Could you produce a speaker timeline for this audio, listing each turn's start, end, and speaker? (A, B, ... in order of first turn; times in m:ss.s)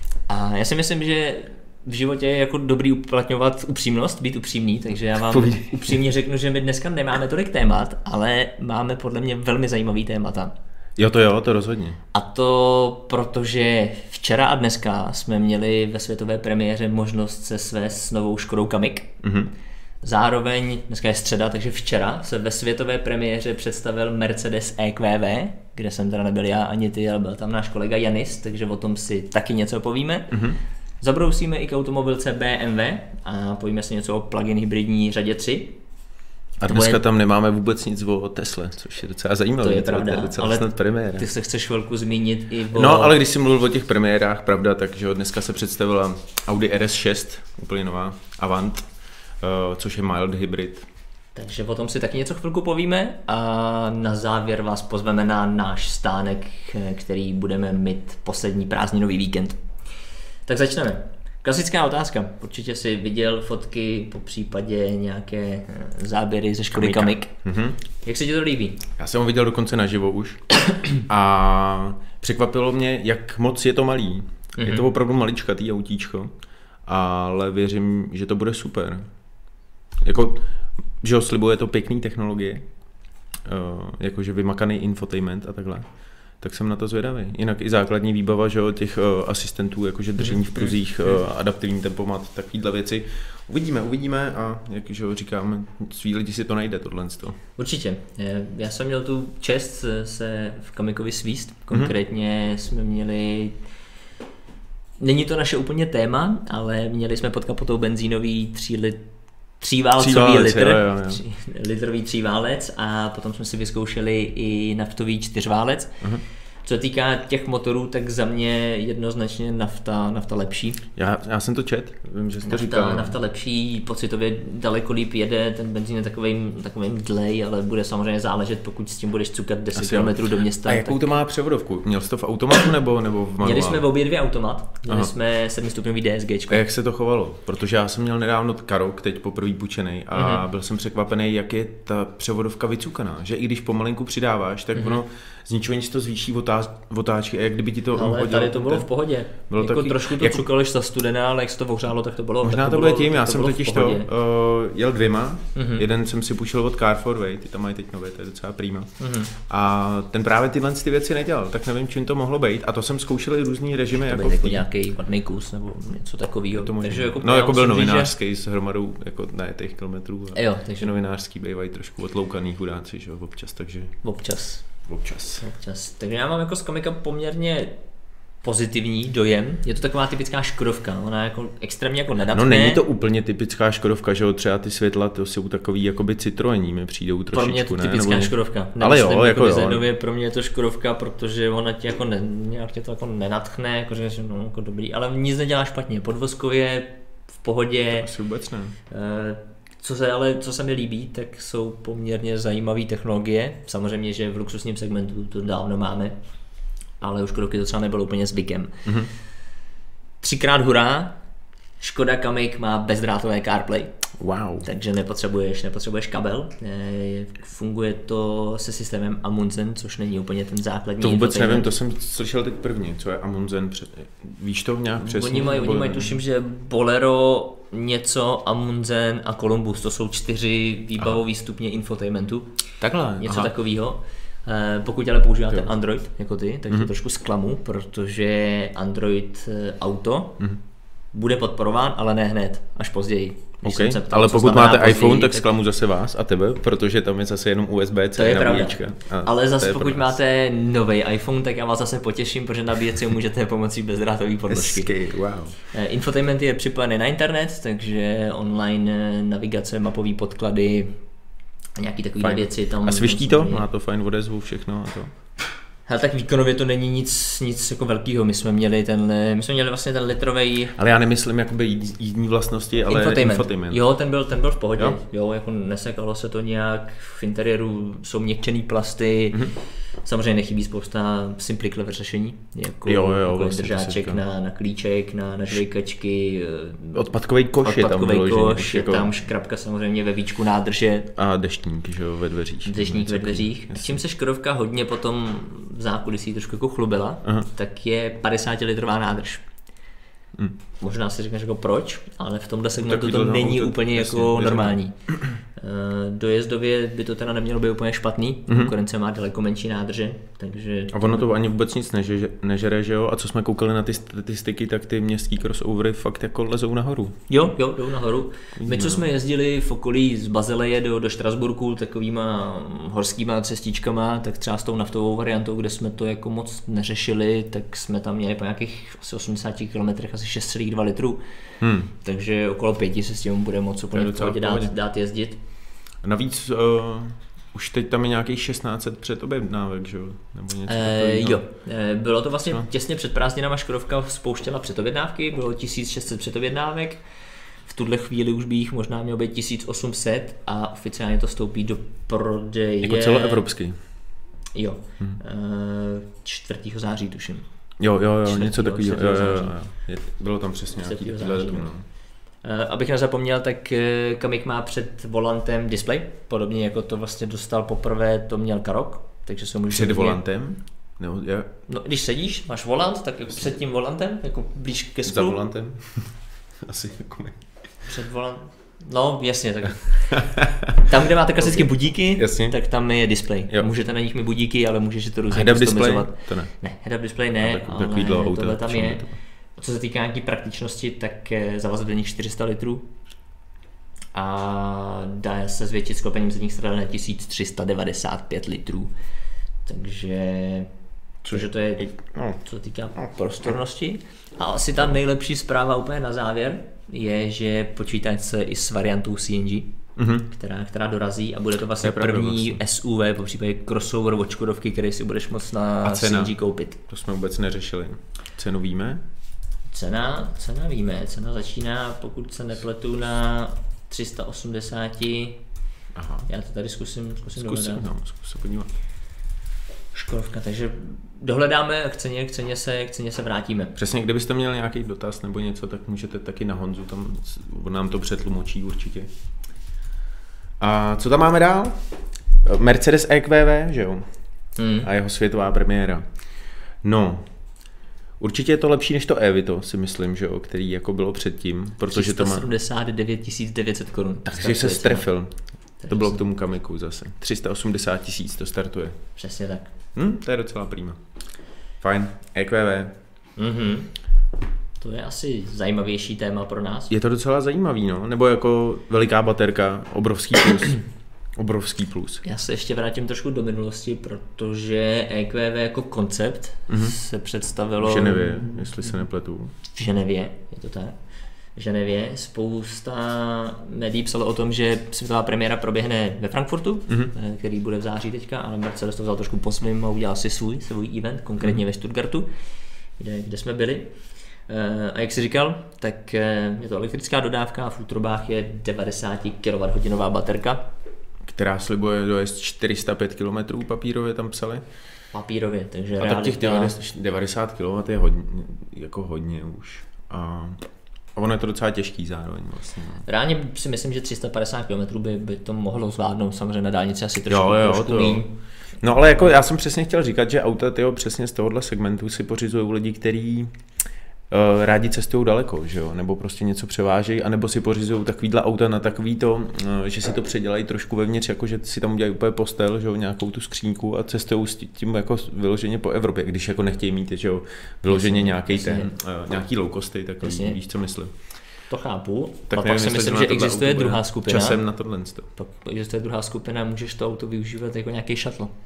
0:00.3-0:10.5 A
0:05.1-0:06.0 B
0:11.0-0:12.0 B
0:12.1-0:19.2 A
0:19.2-0:19.5 B
0:20.0-0:30.4 A
0:30.3-0:30.6 B
0:31.0-0:35.8 A
0:36.6-0:41.3 B
0:36.6-0:37.0 A
0:39.6-0:43.2 A
0:42.7-0:50.9 B
0:51.4-0:59.6 A
1:00.5-1:07.3 A
1:06.7-1:07.8 B
1:08.0-1:08.8 A
1:09.0-1:19.1 B
1:14.6-1:14.9 A
1:20.0-1:22.7 B
1:23.4-1:37.4 B
1:30.2-1:30.6 A
1:37.6-1:43.6 A
1:45.0-1:56.1 A
1:50.0-1:51.2 B
1:56.6-2:00.8 A
2:01.0-2:03.2 B
2:02.4-2:11.0 A
2:09.8-2:13.9 B
2:13.4-2:16.6 A
2:16.5-2:30.5 B
2:20.2-2:20.4 A
2:28.0-2:34.1 A
2:32.4-2:44.7 B
2:35.6-2:35.8 A
2:39.0-2:39.3 A
2:43.9-2:48.1 A
2:46.6-2:54.0 B
2:50.4-2:50.9 A
2:54.0-2:54.9 A
2:54.9-2:55.4 B
2:55.4-2:57.8 A
2:58.4-3:02.8 A
3:02.3-3:09.9 B
3:07.3-3:18.1 A
3:17.9-3:18.8 B
3:18.9-3:26.2 A
3:27.0-3:28.9 A
3:30.2-3:31.2 A
3:31.8-3:33.9 A
3:34.2-3:34.7 B
3:34.6-3:41.7 A
3:41.0-3:46.2 B
3:45.0-3:52.6 A
3:52.8-3:53.5 B
3:53.2-4:00.5 A
4:01.1-4:05.5 A
4:03.6-4:10.2 B
4:08.2-4:14.9 A
4:14.5-4:15.6 B
4:15.6-4:21.1 A
4:21.8-4:23.6 A
4:22.2-4:25.1 B
4:25.9-4:30.8 A
4:30.8-4:33.8 B
4:32.9-4:47.0 A
4:42.8-4:44.2 B
4:46.9-4:49.1 B
4:47.6-4:51.1 A
4:51.2-4:54.0 B
4:52.7-4:59.5 A
5:00.8-5:11.3 A
5:02.8-5:05.4 B
5:10.9-5:17.2 B
5:17.3-5:31.2 A
5:18.6-5:19.1 B
5:31.6-5:31.9 B
5:31.9-5:35.4 A
5:33.9-5:34.7 B
5:36.0-5:41.4 B
5:40.7-5:47.0 A
5:47.6-5:53.5 A
5:52.8-5:53.8 B
5:54.5-5:57.5 A
5:57.8-6:01.8 B
5:58.2-5:59.6 A
6:00.8-6:01.7 A
6:02.4-6:10.2 A
6:09.7-6:11.5 B
6:11.7-6:15.4 A
6:15.1-6:17.4 B
6:17.8-6:32.9 A
6:21.4-6:22.6 B
6:25.3-6:26.5 B
6:27.4-6:29.1 B
6:34.1-6:38.9 A
6:39.6-6:40.7 A
6:41.2-6:42.4 B
6:41.3-6:56.8 A
6:50.0-6:50.3 B
6:51.8-6:52.6 B
6:55.8-6:56.4 B
6:56.9-6:59.0 B
6:59.7-7:05.4 A
7:05.9-7:06.3 B
7:06.3-7:07.9 A
7:07.3-7:08.7 B
7:09.9-7:13.8 A
7:13.8-7:19.1 B
7:20.6-7:21.8 B
7:22.4-7:24.1 B
7:24.6-7:24.9 A
7:24.8-7:26.1 B
7:26.8-7:27.3 B
7:28.2-7:32.5 B
7:31.9-7:35.1 A
7:34.3-7:39.0 B
7:35.8-7:36.2 A
7:39.2-7:39.7 A
7:40.0-7:41.0 B
7:41.8-7:43.0 B
7:43.4-7:44.1 A
7:44.8-7:46.9 A
7:46.9-7:52.2 B
7:52.2-7:59.0 A
7:56.7-7:57.0 B
7:57.8-7:59.5 B
7:59.7-8:01.0 A
8:01.6-8:12.3 A
8:13.0-8:20.7 A
8:21.2-8:24.6 B
8:25.1-8:26.8 A
8:26.0-8:33.0 B
8:33.1-8:38.4 A
8:37.3-8:38.3 B
8:38.8-8:43.6 B
8:44.3-9:01.1 B
8:57.9-8:58.9 A
9:00.2-9:00.6 A
9:01.7-9:04.6 A
9:02.5-9:05.3 B
9:05.4-9:08.5 A